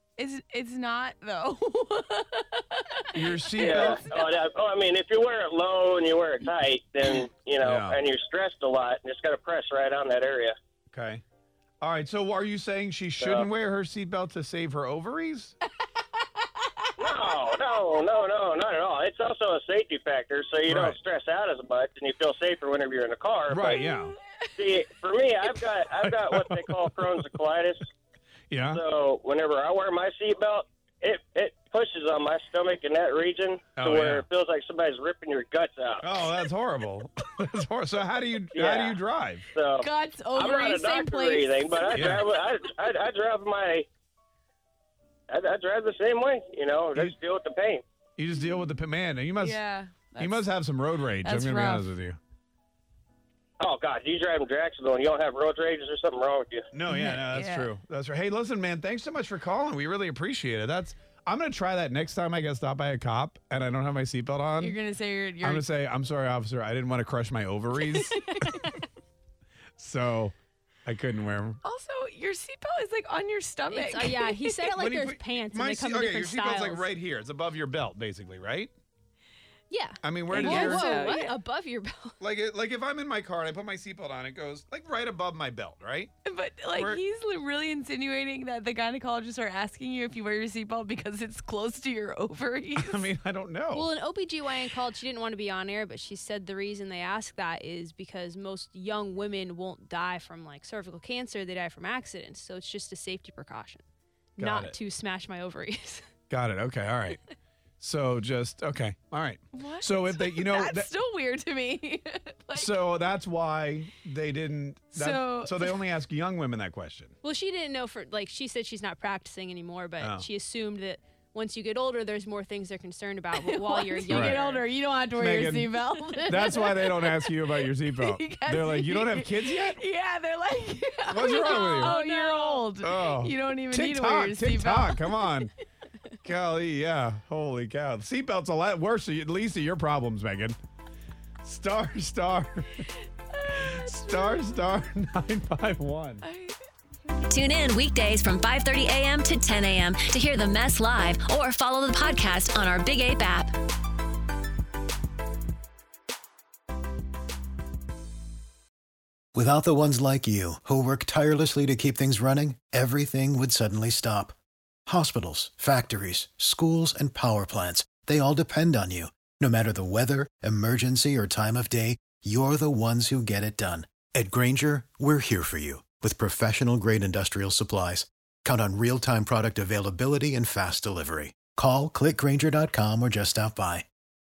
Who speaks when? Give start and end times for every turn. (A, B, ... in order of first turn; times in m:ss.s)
0:00.2-0:03.5 A
0:03.1-0:04.0 B
0:03.6-0:10.5 C
0:07.6-0:08.0 B
0:10.9-0:11.2 B
0:11.8-0:15.5 B
0:13.2-0:13.5 C
0:17.0-0:24.0 C
0:20.7-0:21.0 B
0:23.5-0:24.2 B
0:24.6-0:27.8 C
0:26.0-0:26.8 B
0:28.5-0:28.8 B
0:28.7-0:36.1 C
0:33.8-0:34.2 B
0:36.0-0:39.5 B
0:38.5-0:39.0 C
0:39.5-0:43.9 C
0:39.8-0:42.1 A
0:41.9-0:42.2 B
0:45.3-0:47.8 C
0:48.2-0:49.6 B
0:49.4-0:50.5 A
0:50.2-0:52.2 B
0:51.2-0:51.9 A
0:53.6-0:56.6 C
0:56.7-1:04.8 B
0:56.9-0:57.7 A
1:04.6-1:05.7 A
1:05.4-1:08.6 B
1:07.9-1:08.2 A
1:08.4-1:08.7 D
1:09.8-1:10.3 B
1:10.8-1:11.6 B
1:11.6-1:14.6 A
1:13.7-1:16.9 D
1:14.8-1:18.7 B
1:19.7-1:22.2 D
1:20.0-1:21.0 B
1:20.3-1:21.4 A
1:22.2-1:26.1 B
1:26.2-1:33.1 A
1:26.7-1:27.0 B
1:32.8-1:33.9 B
1:33.7-1:43.8 D
1:44.4-1:44.8 B
1:44.4-1:46.0 D
1:46.3-1:47.2 B
1:47.8-1:50.9 B
1:49.5-1:52.7 A
1:52.5-1:57.1 B
1:54.9-1:55.8 A
1:57.2-2:04.6 D
2:00.0-2:00.2 B
2:03.4-2:15.5 A
2:04.1-2:04.4 B
2:05.1-2:09.8 B
2:11.1-2:12.0 B
2:11.2-2:12.6 D
2:12.8-2:15.5 B
2:16.2-2:20.6 B
2:21.4-2:22.8 B
2:23.3-2:24.5 A
2:23.4-2:26.2 B
2:26.2-2:26.6 A
2:27.3-2:33.6 E
2:39.3-2:44.3 F
2:44.8-3:03.8 F